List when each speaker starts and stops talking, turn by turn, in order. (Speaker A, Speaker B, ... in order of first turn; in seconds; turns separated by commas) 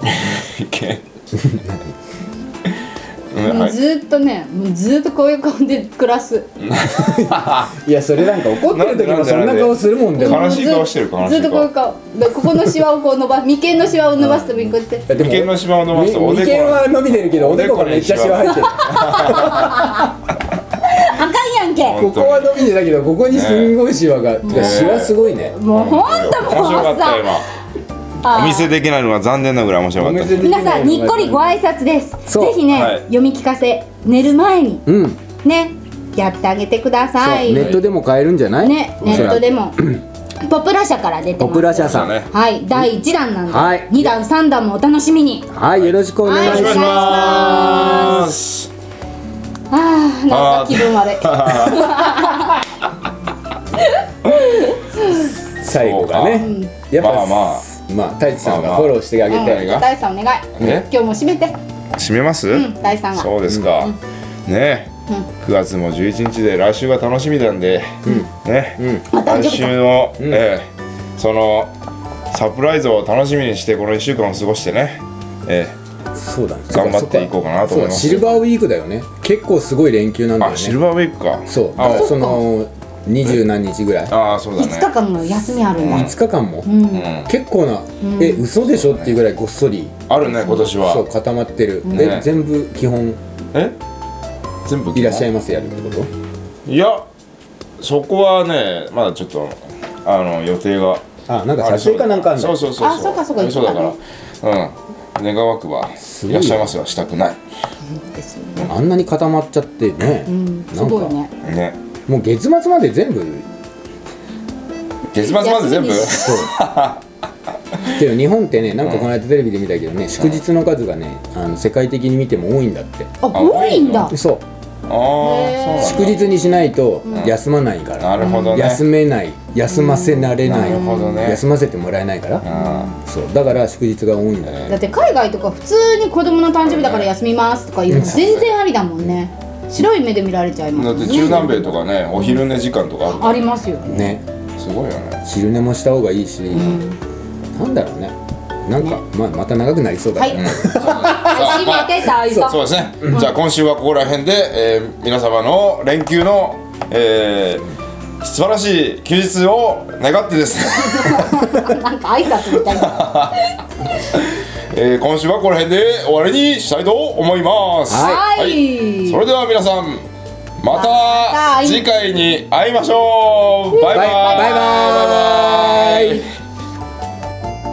Speaker A: 0.2-1.0, Speaker B: 1.3-1.8, Speaker A: 3.3-3.8, Speaker C: 3.4-6.5, Speaker A: 6.6-7.7, Speaker B: 6.9-10.5, Speaker A: 8.5-11.7, Speaker C: 10.2-15.1, Speaker B: 14.2-20.1, Speaker A: 15.1-19.8, Speaker C: 18.6-20.1, Speaker C: 20.9-22.0, Speaker A: 21.8-22.7, Speaker B: 21.9-25.6, Speaker A: 23.3-23.8, Speaker C: 24.4-27.3, Speaker A: 24.5-25.1, Speaker A: 25.7-27.5, Speaker C: 28.2-28.7, Speaker A: 28.3-30.4, Speaker B: 30.0-31.5, Speaker C: 30.4-34.8, Speaker B: 32.3-32.6, Speaker A: 32.7-33.0, Speaker B: 34.9-35.2, Speaker C: 35.4-37.8, Speaker B: 37.2-40.0, Speaker A: 37.5-37.8, Speaker C: 38.6-39.8, Speaker A: 39.0-39.4, Speaker C: 40.4-45.5, Speaker B: 41.4-42.2, Speaker A: 41.8-42.3, Speaker B: 43.5-44.1, Speaker B: 45.5-48.0, Speaker A: 45.8-48.7, Speaker C: 46.2-48.3, Speaker C: 49.7-52.6, Speaker A: 50.3-52.3, Speaker C: 53.8-55.3, Speaker B: 55.6-59.8, Speaker A: 55.7-57.6, Speaker C: 56.3-56.7, Speaker A: 58.4-59.9, Speaker C: 59.3-61.5, Speaker A: 60.6-60.9, Speaker B: 60.6-60.8, Speaker A: 62.0-63.9, Speaker C: 62.5-63.3, Speaker B: 63.5-63.7, Speaker A: 64.5-71.7, Speaker B: 68.8-69.1, Speaker C: 69.1-69.8, Speaker A: 72.3-75.8, Speaker B: 76.1-80.8, Speaker A: 76.7-78.3, Speaker A: 80.4-82.1, Speaker B: 81.5-84.1, Speaker C: 81.8-82.4, Speaker A: 84.1-84.9, Speaker C: 84.6-86.1, Speaker B: 85.8-93.2, Speaker A: 85.8-86.1, Speaker C: 86.6-87.1, Speaker A: 86.9-87.3, Speaker C: 88.0-88.4, Speaker A: 88.6-89.2, Speaker A: 90.1-91.0, Speaker A: 91.9-92.3, Speaker A: 94.7-95.3, Speaker B: 94.9-96.1, Speaker A: 96.7-97.0, Speaker A: 97.8-101.0, Speaker B: 101.3-102.6, Speaker A: 101.6-107.4, Speaker C: 102.8-104.0, Speaker B: 106.0-106.8, Speaker C: 107.9-108.7, Speaker B: 108.6-111.1, Speaker C: 110.2-111.3, Speaker A: 111.4-111.8, Speaker B: 112.1-113.5, Speaker A: 115.1-117.0, Speaker C: 115.2-116.5, Speaker B: 116.2-116.5, Speaker B: 117.9-123.2, Speaker A: 118.8-119.1, Speaker C: 123.2-124.1, Speaker A: 123.3-124.1, Speaker B: 124.1-124.4, Speaker A: 124.8-126.2, Speaker C: 125.2-126.2, Speaker B: 125.8-132.4, Speaker A: 128.0-128.8, Speaker C: 128.2-128.7, Speaker C: 129.7-131.2, Speaker A: 130.4-131.4, Speaker A: 132.4-132.9, Speaker C: 132.5-132.9, Speaker B: 133.0-134.5, Speaker A: 134.4-134.8, Speaker C: 134.7-142.3, Speaker A: 136.6-137.1, Speaker B: 137.9-138.3, Speaker A: 137.9-138.5, Speaker A: 140.7-143.5, Speaker C: 143.1-144.2, Speaker B: 143.9-144.2, Speaker A: 144.6-145.2, Speaker B: 145.2-146.8, Speaker C: 146.5-147.0, Speaker B: 147.6-148.1, Speaker B: 148.7-151.5, Speaker C: 150.2-153.3, Speaker A: 150.3-157.7, Speaker A: 158.2-161.7, Speaker C: 160.7-163.4, Speaker A: 162.6-163.4, Speaker A: 164.1-170.0, Speaker B: 167.9-168.2, Speaker C: 168.0-169.2, Speaker A: 170.6-176.3, Speaker C: 170.7-171.9, Speaker C: 173.7-174.9, Speaker B: 173.9-176.3